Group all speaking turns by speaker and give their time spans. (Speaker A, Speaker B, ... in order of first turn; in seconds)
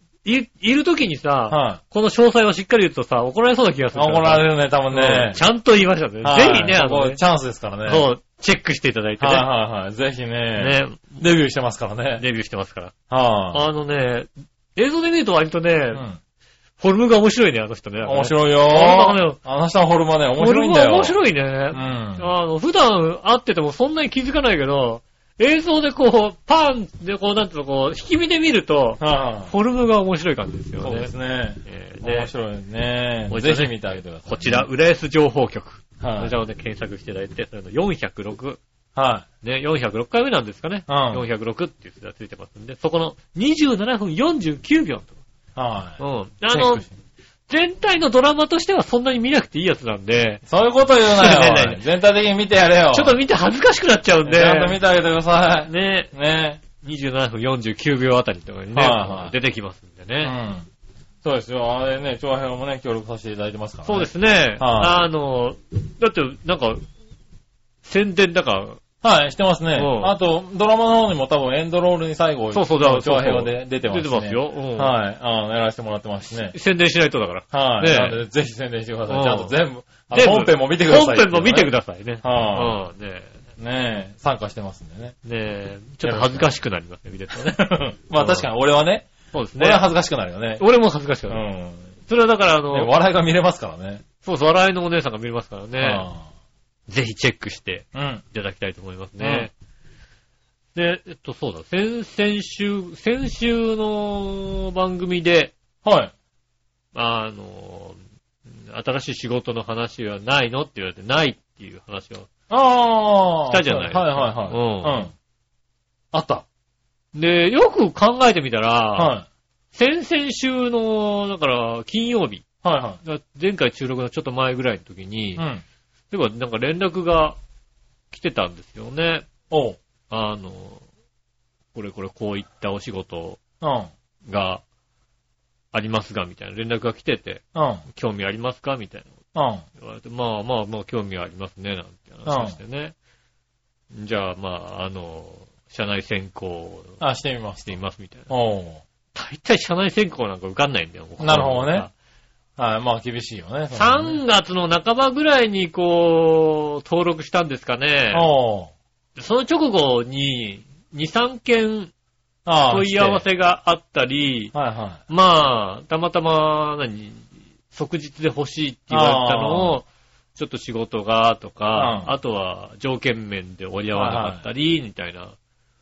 Speaker A: 0.2-7.2, 7.8-9.5, 10.6-11.2, 12.2-12.9, 13.5-16.0, 16.8-19.4, 20.4-31.1, 31.6-32.3, 33.3-38.6, 39.4-45.1, 46.0-46.9, 47.5-50.4, 51.1-51.8, 52.9-54.8, 55.7-56.1, 56.8-60.4, 63.9-66.8, 67.8-68.8, 69.8-70.1, 72.5-74.9, 76.5-78.2, 79.1-79.5, 80.1-83.4, 85.2-87.6, 88.2-88.5, 89.3-89.9, 90.6-91.4, 92.1-92.9, 94.2-96.1, 96.9-99.5, 100.8-105.5, 106.9-108.0, 108.5-112.3, 113.5-115.1, 117.1-119.1, 119.7-122.5, 123.0-125.5, 126.1-127.4, 128.1-129.3, 130.1-130.8, 131.7-133.4, 134.3-134.6, 135.7-139.1, 139.8-142.9, 143.9-147.0, 147.7-148.3, 149.1-151.9, 153.7-158.3, 159.2-161.9, 162.7-164.5, 165.1-175.3
Speaker B: 1.5-1.8, 4.0-5.4, 6.2-8.1, 9.2-12.2, 13.1-13.6, 15.9-16.2, 18.1-21.2, 21.7-22.3, 29.0-29.5, 30.8-34.7, 36.0-36.4, 39.0-39.3, 40.9-41.2, 45.6-46.9, 50.5-53.2, 54.2-56.6, 58.7-59.3, 60.2-60.7, 61.2-65.0, 69.0-76.5, 77.5-82.8, 83.6-85.2, 86.0-86.5, 87.3-90.6, 91.3-91.9, 92.7-94.0, 95.8-96.2, 97.9-98.2, 99.2-99.5, 105.8-106.1, 112.5-115.1, 116.1-116.5, 119.0-119.3, 122.6-123.0, 125.4-125.6, 129.5-129.8, 133.6-133.9, 137.6-137.8, 139.3-139.6, 142.3-142.6, 147.0-148.8, 151.2-151.9, 152.6-154.2, 158.1-158.7, 162.5-163.2, 164.5-165.0, 168.9-169.8, 171.8-172.1, 173.9-174.5